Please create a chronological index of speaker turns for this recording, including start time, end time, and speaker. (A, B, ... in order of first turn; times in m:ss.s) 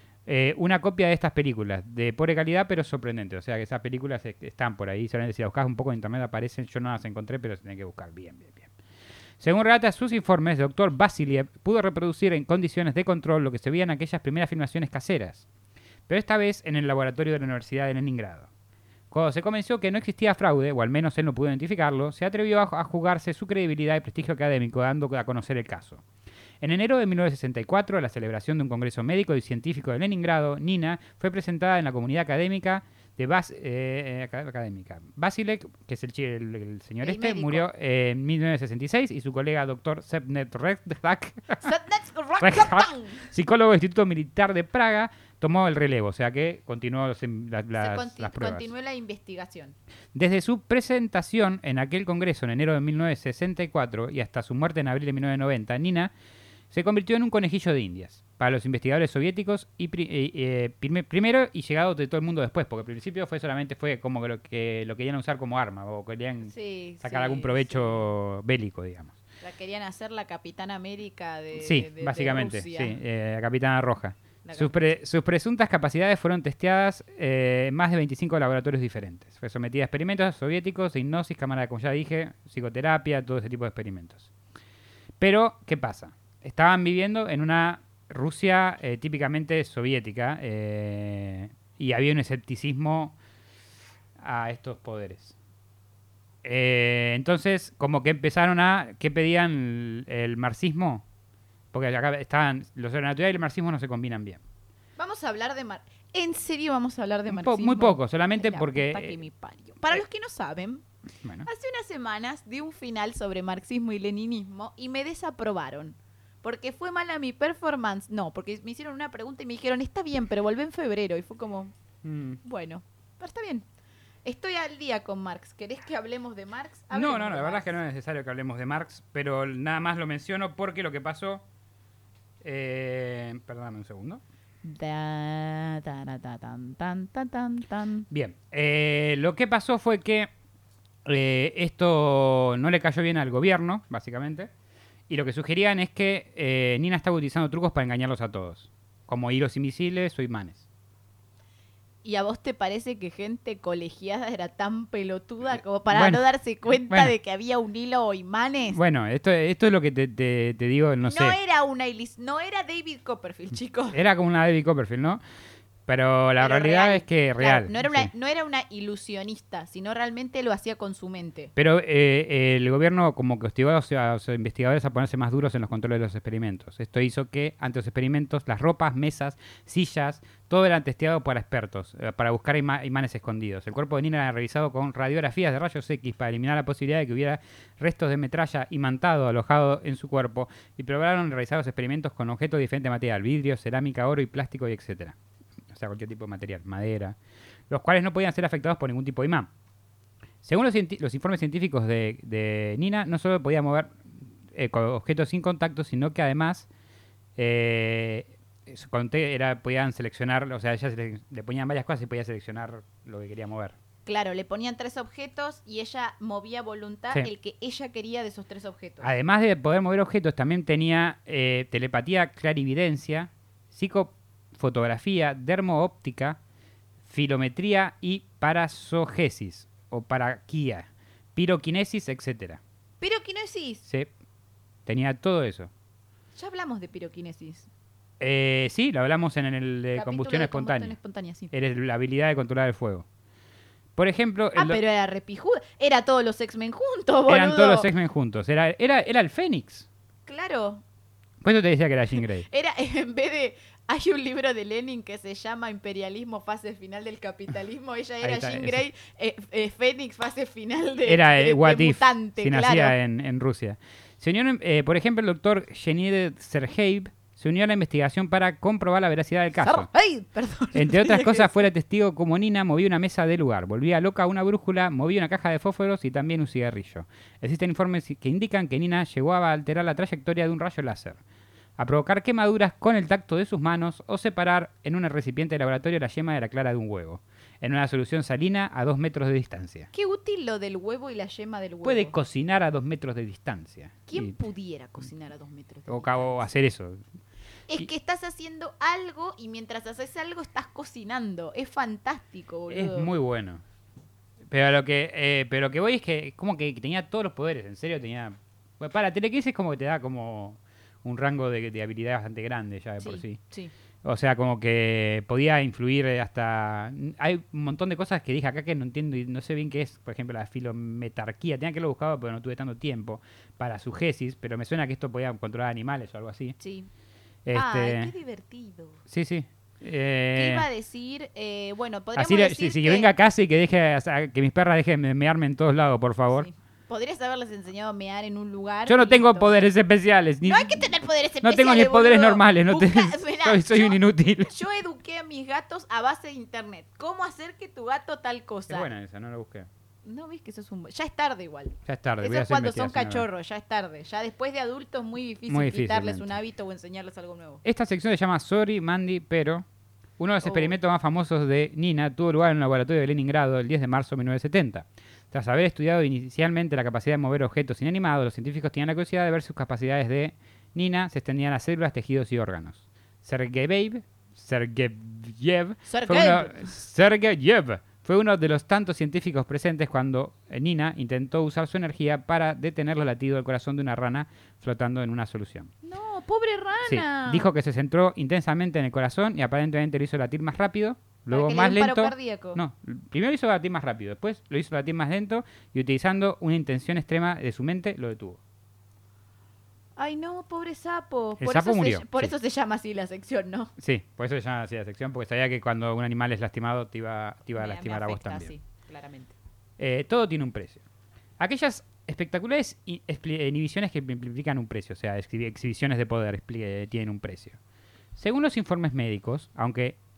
0:00.2-0:08.7 A
0:09.4-0:15.4 A
0:16.1-0:18.5 A
0:19.1-0:26.0 A
0:26.6-0:41.7 A
0:37.0-0:37.7 B
0:41.6-0:43.3 B
0:42.4-0:48.7 A
0:47.8-0:49.8 B
0:50.1-0:56.1 A
0:56.7-1:09.1 A
1:06.4-1:08.0 B
1:09.4-1:13.0 B
1:11.6-1:24.3 A
1:14.4-1:14.8 B
1:25.2-1:33.2 A
1:34.2-1:35.3 A
1:36.4-1:41.0 A
1:41.7-1:44.4 A
1:45.0-1:50.8 B
1:47.3-1:49.2 A
1:51.4-2:01.7 B
2:02.0-2:02.4 A
2:02.4-2:03.6 B
2:04.2-2:07.7 B
2:06.9-2:11.4 A
2:12.4-2:14.2 A
2:14.6-2:18.1 B
2:18.1-2:20.3 A
2:21.0-2:24.5 A
2:25.1-2:30.6 A
2:32.0-2:38.8 B
2:35.9-2:36.2 A
2:36.9-2:37.1 A
2:38.7-2:41.4 A
2:41.1-2:44.0 B
2:43.9-2:45.2 A
2:45.8-2:48.1 A
2:46.4-2:51.5 B
2:51.6-3:15.2 A
3:15.7-3:17.2 A
3:17.7-3:19.5 A
3:20.4-3:26.7 A
3:27.4-3:33.8 A
3:34.0-3:39.1 B
3:39.0-3:46.4 A
3:47.0-3:52.6 A
3:53.0-3:53.8 B
3:54.8-3:55.7 A
3:56.4-3:57.7 B
3:58.2-4:01.0 A
3:59.9-4:01.5 B
4:01.5-4:03.0 A
4:04.0-4:04.8 A
4:04.5-4:07.9 B
4:07.3-4:09.8 A
4:10.2-4:10.8 B
4:11.4-4:12.4 A
4:12.4-4:22.9 B
4:18.2-4:18.8 A
4:21.0-4:29.9 A
4:29.6-4:31.6 B
4:30.7-4:41.2 A
4:41.8-4:49.9 A
4:49.9-4:52.1 B
4:51.8-4:54.3 A
4:54.1-4:56.4 B
4:55.9-4:57.0 A
4:57.7-5:03.1 B
5:02.7-5:03.6 A
5:04.5-5:13.4 A
5:13.0-5:13.7 B
5:14.0-5:26.6 A
5:26.6-5:26.9 B
5:27.4-5:28.1 A
5:27.5-5:29.0 B
5:29.1-5:30.7 A
5:30.3-5:33.1 B
5:32.1-5:36.5 A
5:36.3-5:39.6 B
5:38.8-5:44.5 A
5:40.4-5:48.9 B
5:48.7-5:49.7 A
5:50.0-5:57.6 B
5:51.8-5:53.2 A
5:55.5-5:56.4 A
5:57.6-5:59.6 A
6:00.2-6:25.7 A
6:00.4-6:00.7 B
6:15.8-6:16.7 B
6:25.8-6:27.5 B
6:26.8-6:38.4 A
6:31.3-6:32.6 B
6:40.0-6:43.7 B
6:41.4-6:42.3 A
6:43.8-6:48.5 A
6:47.6-6:49.3 B
6:49.8-6:50.8 A
6:51.4-6:57.6 A
6:58.1-7:00.0 A